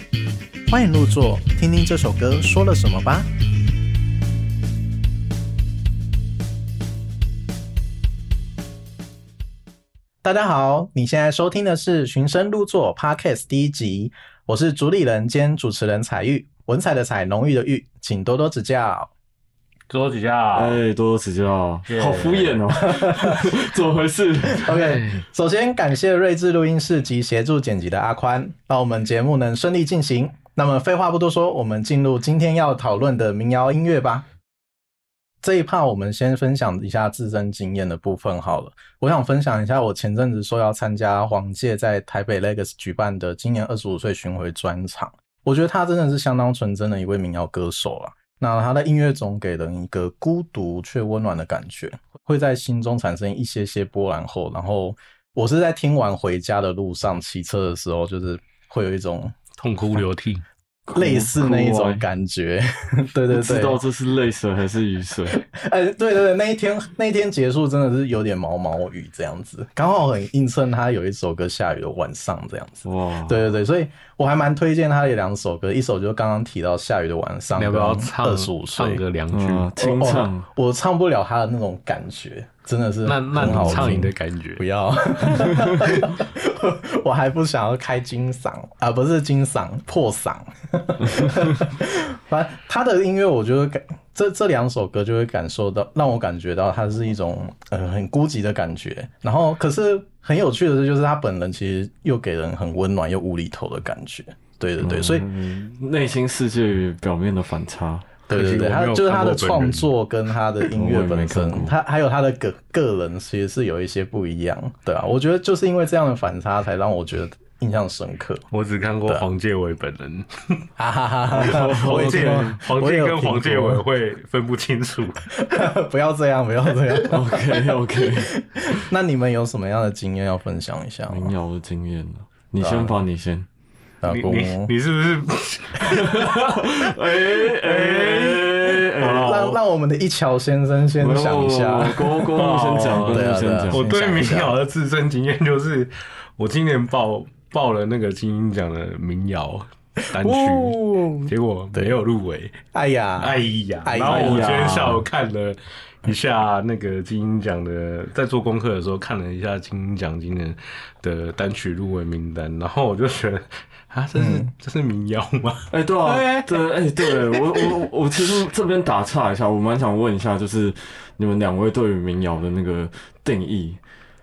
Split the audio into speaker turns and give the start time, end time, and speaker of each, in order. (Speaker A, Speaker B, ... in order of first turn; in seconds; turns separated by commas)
Speaker A: 0.7-3.3, Speaker A: 10.2-19.1, Speaker B: 19.9-20.8, Speaker C: 20.5-25.0, Speaker B: 21.9-22.6, Speaker A: 22.8-23.6, Speaker A: 24.4-34.3, Speaker B: 24.7-25.2, Speaker A: 35.4-59.4, Speaker B: 59.6-60.5, Speaker C: 60.9-62.0, Speaker A: 61.0-63.8, Speaker C: 63.3-65.4, Speaker A: 65.4-79.0, Speaker C: 72.8-73.5, Speaker B: 77.6-79.7, Speaker C: 79.3-80.5, Speaker A: 79.8-105.3, Speaker B: 83.0-84.6, Speaker C: 83.4-84.1, Speaker C: 85.5-85.9, Speaker C: 104.8-108.1, Speaker B: 108.3-109.9, Speaker A: 108.3-118.4, Speaker C: 110.7-111.8, Speaker B: 118.5-120.6, Speaker A: 120.8-123.8, Speaker C: 121.3-122.6, Speaker B: 121.3-125.2, Speaker A: 125.3-131.3, Speaker C: 127.0-128.3, Speaker C: 131.1-133.5, Speaker A: 132.6-133.0, Speaker A: 134.0-134.7, Speaker B: 134.1-139.5, Speaker C: 135.9-139.6, Speaker A: 139.0-144.6, Speaker C: 141.0-143.9, Speaker B: 142.4-152.6, Speaker A: 150.2-152.0, Speaker A: 152.7-154.6, Speaker B: 153.2-165.7, Speaker C: 154.1-155.1, Speaker A: 164.2-164.5, Speaker C: 165.7-173.8, Speaker A: 166.1-166.4